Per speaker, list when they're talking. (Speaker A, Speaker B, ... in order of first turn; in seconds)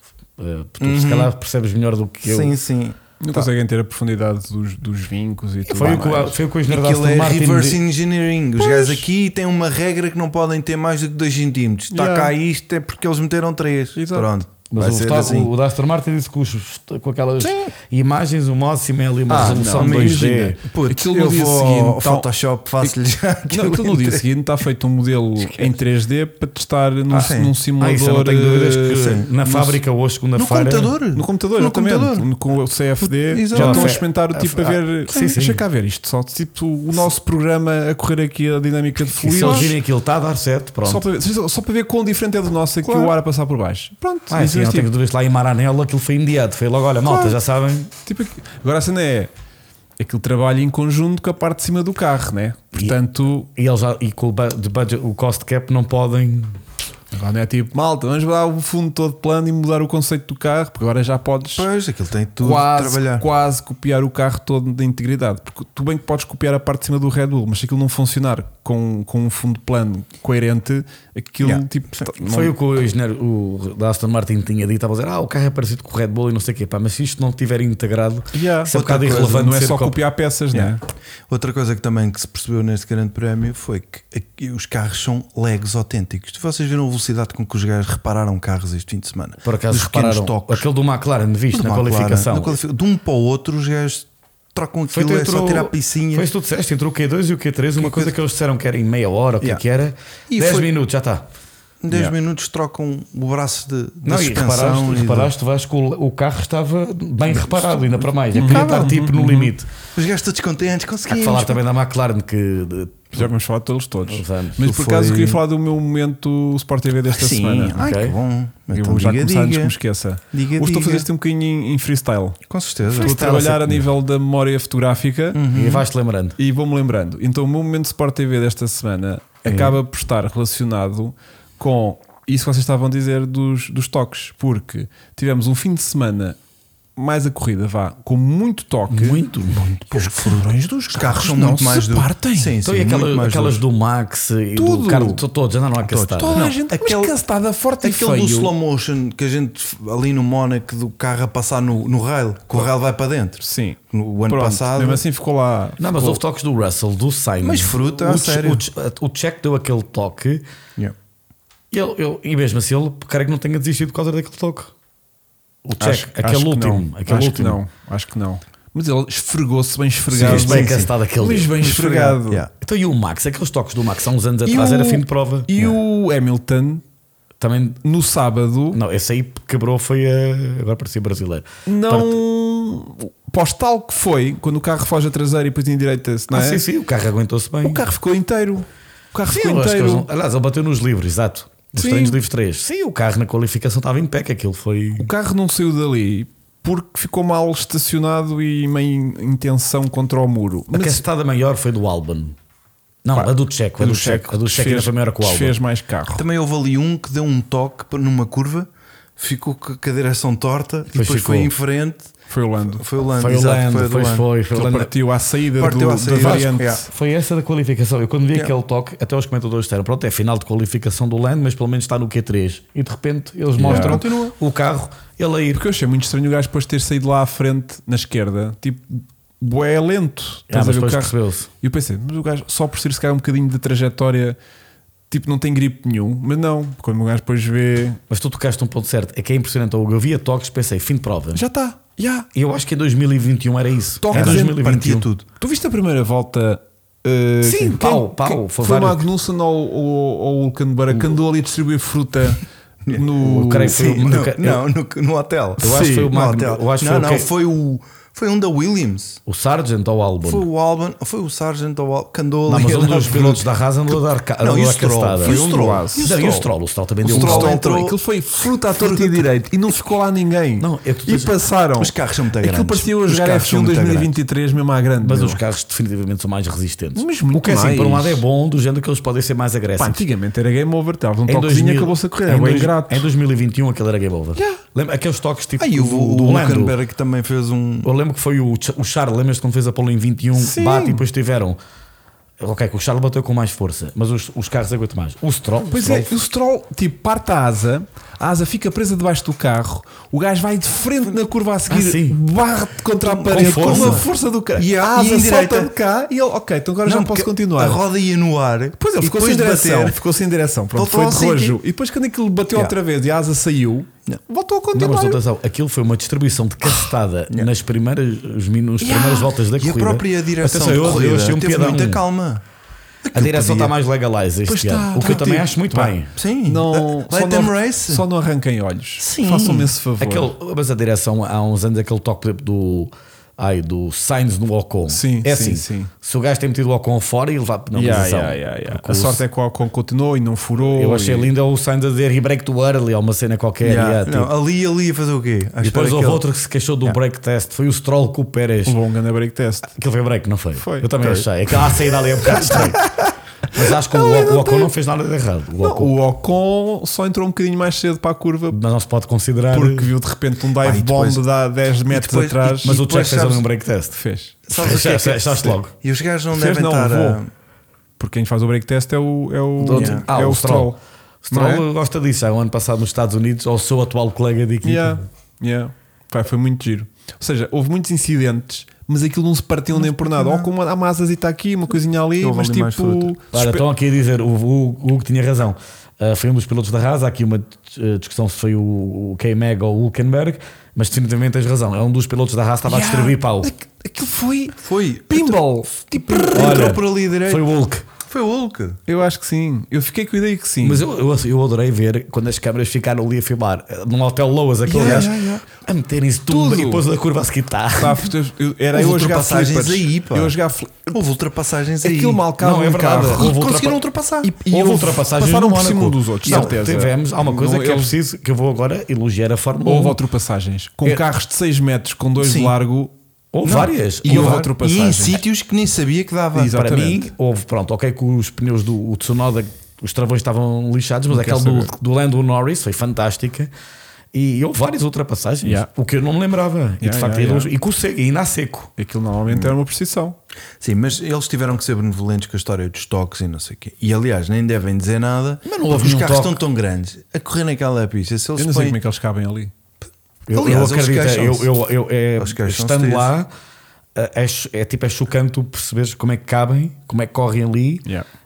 Speaker A: 0.4-2.6, 5.7-7.8, 14.7-20.6, 27.2-30.9, 33.5-35.6, 39.2-41.0, 44.3-47.9, 53.5-56.6, 72.2-80.0, 89.4-92.6, 94.9-101.3, 104.0-109.7, 111.1-113.3, 114.0-114.6, 117.8-118.2, 122.9-123.9, 125.5-126.4, 129.5-129.7, 138.9-139.7, 142.6-146.4, 155.8-160.4, 161.7-164.7, 165.7-167.6, 170.1-171.8, 172.6-175.8, 177.4-177.8, 178.7-182.2, 186.3-187.8, 189.3-195.1, 200.7-202.3, 203.1-205.6, 210.9-211.5, 213.2-214.9, 216.1-225.6, 230.5-231.5, 238.1-241.4, 242.3-245.1, 247.4-249.1, 253.2-254.6, 255.6-257.3, 259.3-260.5, 262.5-265.4, 266.0-267.6, 270.6-271.4, 275.0-280.0, 281.3-286.8, 287.8-291.6, 292.4-296.1, 301.7-302.2, 303.3-304.1, 314.7-322.0, 323.1-326.1, 330.0-339.2, 340.6-344.3, 345.6-348.8, 349.8-352.9, 353.5-355.9, 358.5-359.9, 362.6-364.0, 364.5-365.7, 369.6-375.0, 383.3-393.5, 396.3-397.9, 400.6-408.1, 412.4-413.8, 414.5-420.0, 423.3-424.4, 426.4-433.5, 434.1-438.7, 445.4-446.4, 450.3-453.3, 453.9-457.9
Speaker B: 0.8-1.3, 2.3-3.5, 6.7-15.5, 19.3-24.2, 27.1-27.5, 28.9-29.3, 30.4-32.3, 33.1-34.0, 39.4-39.7, 61.5-63.3, 71.4-72.1, 78.7-79.5, 81.3-90.7, 91.5-96.3, 97.8-98.2, 100.3-100.7, 101.8-105.3, 108.4-108.9, 110.0-111.6, 114.6-115.4, 117.1-119.8, 120.3-121.1, 122.5-123.2, 125.3-125.9, 139.6-143.6, 145.9-147.1, 147.8-155.0, 157.4-158.7, 170.1-170.9, 171.6-172.5, 206.1-212.1, 212.7-214.3, 215.6-216.8, 223.6-224.3, 244.1-245.2, 253.7-259.2, 260.2-263.5, 264.4-266.5, 267.1-268.0, 268.7-269.2, 271.8-274.1, 285.6-287.9, 303.0-305.7, 306.9-310.0, 310.8-311.6, 318.8-322.4, 323.0-323.7, 325.0-325.4, 326.1-328.1, 329.0-329.7, 343.6-346.2, 360.6-361.2, 361.9-363.4, 364.5-367.3, 369.7-370.1, 379.9-380.5, 382.2-383.1, 394.6-395.4, 395.9-397.5, 398.1-398.8, 404.8-405.1, 408.7-410.4, 410.9-412.2, 413.1-414.3, 416.2-416.6, 422.2-422.6, 423.4-426.6, 439.3-439.6, 440.6-448.8, 450.3-451.6, 452.2-453.1
Speaker C: 3.2-6.4, 11.9-12.3, 14.0-14.3, 19.3-22.3, 23.5-29.8, 31.1-39.8, 40.9-44.9, 47.1-47.4, 48.0-49.3, 50.0-53.5, 57.1-61.7, 62.4-72.5, 78.3-80.8, 108.3-109.5, 113.1-117.9, 118.7-122.4, 122.9-125.4, 126.4-136.4, 137.0-139.2, 139.9-142.6, 144.6-145.2, 146.2-148.5, 153.4-156.2, 165.8-172.5, 174.5-176.8, 177.8-178.8, 181.7-186.6, 187.6-190.1, 191.8-192.2, 195.0-201.0, 203.1-206.2, 212.3-212.8, 214.5-216.8, 223.6-224.0, 225.5-234.4, 235.1-238.0, 241.3-242.3, 244.0-244.7, 245.4-254.2, 255.6-256.1, 265.2-266.3, 267.1-275.4, 276.9-278.2, 279.8-283.1, 290.4-291.0, 295.7-307.8, 308.8-315.2, 324.5-325.9, 326.4-330.3, 334.9-335.9, 337.7-341.3, 348.7-349.7, 350.6-350.9, 352.3-354.7, 355.6-358.6, 359.5-362.8, 364.0-364.5, 366.3-367.2, 368.0-370.8, 371.3-371.6, 374.6-383.6, 392.7-396.6, 398.9-400.8, 404.7-405.4, 406.3-406.9, 407.8-411.0, 411.8-413.3, 414.2-417.9, 419.6-422.9, 424.0-425.2, 426.4-427.1, 431.1-431.7, 435.4-435.7, 436.8-437.5, 438.8-440.2, 448.4-449.5